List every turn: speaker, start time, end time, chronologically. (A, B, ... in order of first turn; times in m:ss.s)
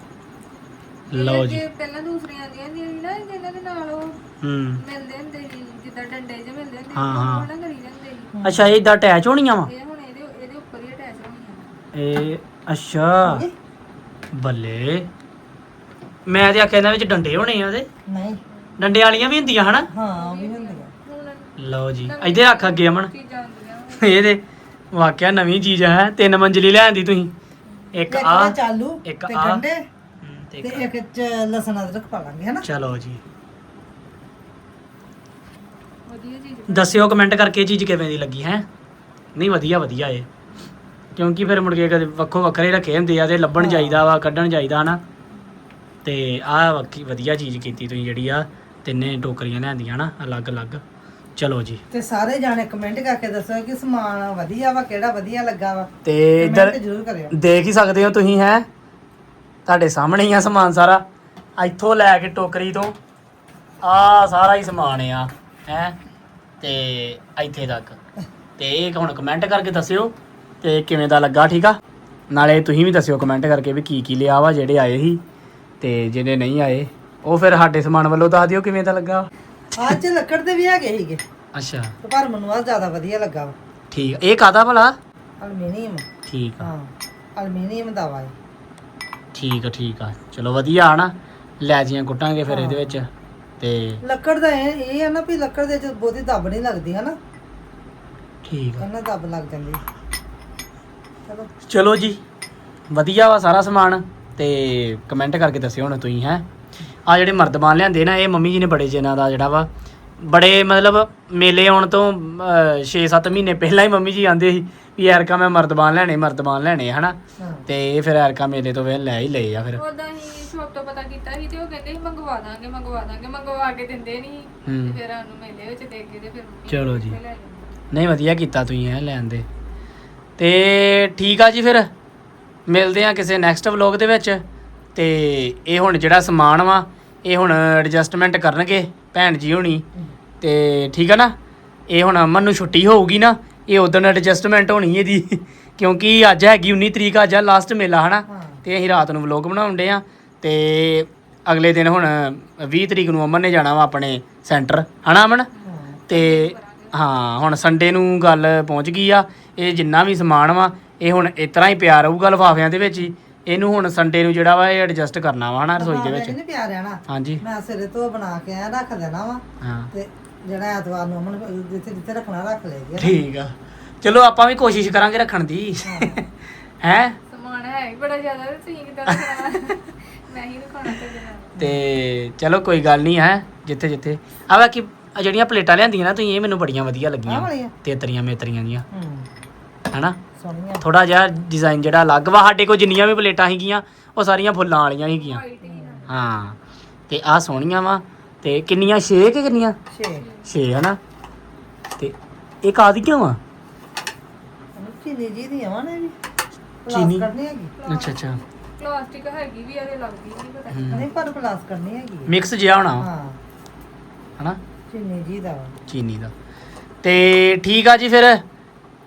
0:01.1-0:04.2 A
0:01.1-0:01.6 B
0:04.4-0:04.8 B
0:04.8-0:08.4 A
0:06.9-0:07.5 B
0:08.3-0:08.7 C
0:08.4-0:09.7 B
0:09.6-0:11.8 A
0:11.9-0:13.4 B
0:13.2-0:13.5 C
0:14.3-0:15.1 B
0:16.3-0:17.9 B
0:18.1-0:18.4 C
0:18.8-0:19.9 B
0:19.9-0:20.9 C
0:20.1-0:24.3 A
0:21.6-0:23.1 B
0:24.0-0:24.4 B
0:24.9-0:27.3 B
0:27.9-0:29.6 B
0:28.1-0:29.8 C
0:30.2-0:30.9 B
0:30.6-0:32.6 C
0:32.6-0:33.2 B
0:36.1-0:37.0 A
0:36.7-0:38.7 B
0:39.4-0:40.3 B
0:41.2-0:45.0 B
0:43.6-0:44.0 C
0:46.0-0:50.8 B
0:51.4-0:51.8 B
0:51.9-0:57.3 C
0:56.0-0:56.8 B
0:57.3-0:58.7 B
0:59.7-1:01.0 B
1:01.6-1:02.9 B
1:03.8-1:06.0 B
1:06.6-1:08.0 B
1:08.6-1:11.8 B
1:12.3-1:15.2 B
1:15.8-1:19.3 B
1:19.8-1:21.2 C
1:21.5-1:22.0 B
1:22.0-1:23.5 C
1:23.9-1:25.0 B
1:25.4-1:26.0 C
1:26.3-1:26.7 B
1:26.6-1:28.3 C
1:29.3-1:33.1 B
1:32.5-1:33.0 C
1:33.6-1:34.0 B
1:34.0-1:37.2 C
1:38.4-1:38.8 B
1:38.8-1:39.8 C
1:41.7-1:42.2 B
1:42.9-1:46.4 B
1:47.1-1:59.8 B
1:57.4-1:57.7 C
1:59.8-2:07.8 A
2:04.7-2:05.0 B
2:06.7-2:07.2 B
2:07.9-2:09.5 B
2:10.4-2:11.9 B
2:12.7-2:14.4 B
2:15.0-2:19.8 B
2:20.4-2:21.4 B
2:21.9-2:35.5 B
2:28.3-2:28.6 C
2:35.5-2:37.0 A
2:35.6-2:36.0 C
2:36.1-2:46.4 B
2:45.8-2:53.2 C
2:47.1-2:47.4 B
2:49.6-2:49.9 B
2:53.0-2:56.3 B
2:55.8-2:56.2 C
2:56.8-2:57.2 B
2:57.3-3:01.6 A
2:59.1-2:59.4 B
3:01.6-3:01.8 C
3:01.6-3:08.8 B
3:07.3-3:07.7 C
3:08.9-3:09.3 C
3:09.9-3:10.2 B
3:10.4-3:10.8 C
3:10.8-3:15.4 B
3:15.1-3:16.1 A
3:15.6-3:16.1 C
3:16.1-3:16.6 B
3:17.1-3:19.8 B
3:19.9-3:20.2 C
3:20.2-3:20.5 A
3:20.4-3:21.0 B
3:22.0-3:23.4 B
3:24.8-3:26.1 C
3:26.9-3:27.7 C
3:26.9-3:27.3 B
3:27.8-3:31.1 A
3:27.9-3:28.4 B
3:30.7-3:31.1 B
3:30.9-3:32.3 C
3:32.3-3:33.1 B
3:33.0-3:33.4 C
3:34.9-3:35.8 C
3:35.9-3:36.3 B
3:37.0-3:38.4 B